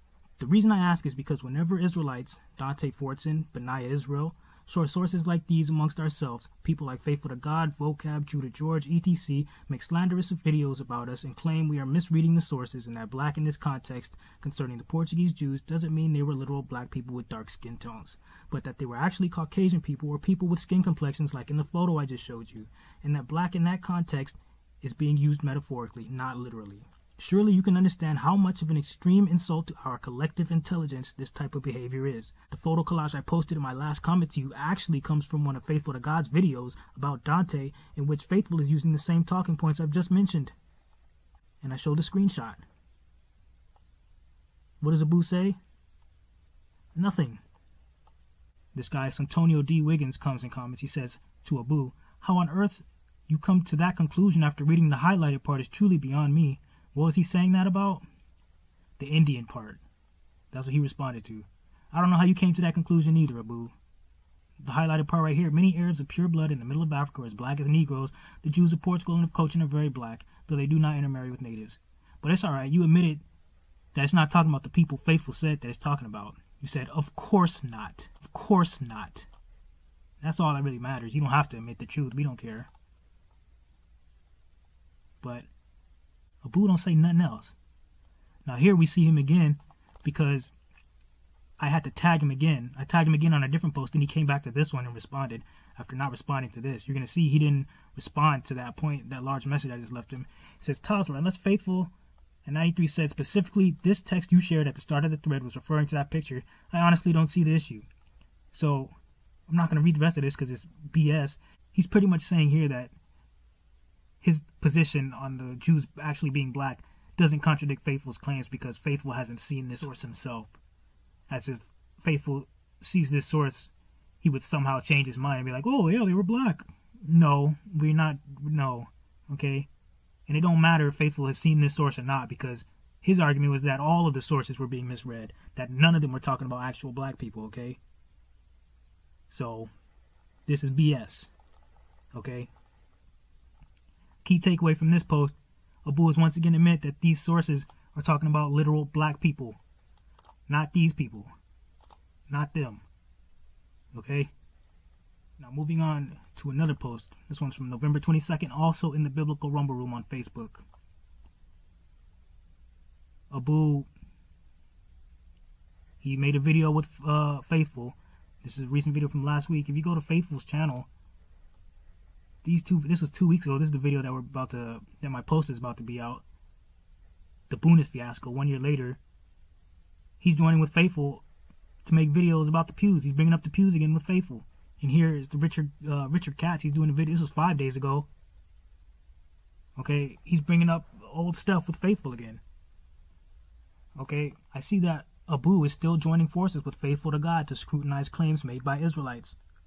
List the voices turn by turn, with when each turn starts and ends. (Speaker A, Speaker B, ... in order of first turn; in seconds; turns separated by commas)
Speaker A: 0.4-40.5, Speaker A: 41.6-42.6, Speaker A: 44.8-45.6, Speaker A: 47.0-47.4, Speaker A: 48.7-58.0, Speaker A: 59.0-59.8, Speaker A: 60.5-63.7, Speaker A: 64.6-73.2, Speaker A: 73.9-79.3, Speaker A: 80.2-82.7, Speaker A: 85.2-85.5, Speaker A: 86.4-87.5, Speaker A: 88.5-90.5, Speaker A: 91.6-101.9, Speaker A: 102.5-107.9, Speaker A: 108.5-108.9, Speaker A: 109.5-112.9, Speaker A: 114.2-120.6, Speaker A: 121.3-123.7, Speaker A: 124.2-129.7, Speaker A: 130.3-137.8, Speaker A: 139.3-139.7, Speaker A: 140.5-141.3, Speaker A: 142.2-142.5, Speaker A: 144.2-149.6, Speaker A: 150.5-151.3, Speaker A: 152.3-152.8, Speaker A: 153.9-154.3, Speaker A: 155.4-160.6, Speaker A: 163.3-163.9, Speaker A: 166.0-170.9, Speaker A: 172.4-176.2, Speaker A: 177.5-179.0, Speaker A: 180.2-181.2, Speaker A: 181.8-188.1, Speaker A: 189.8-192.4, Speaker A: 194.0-199.4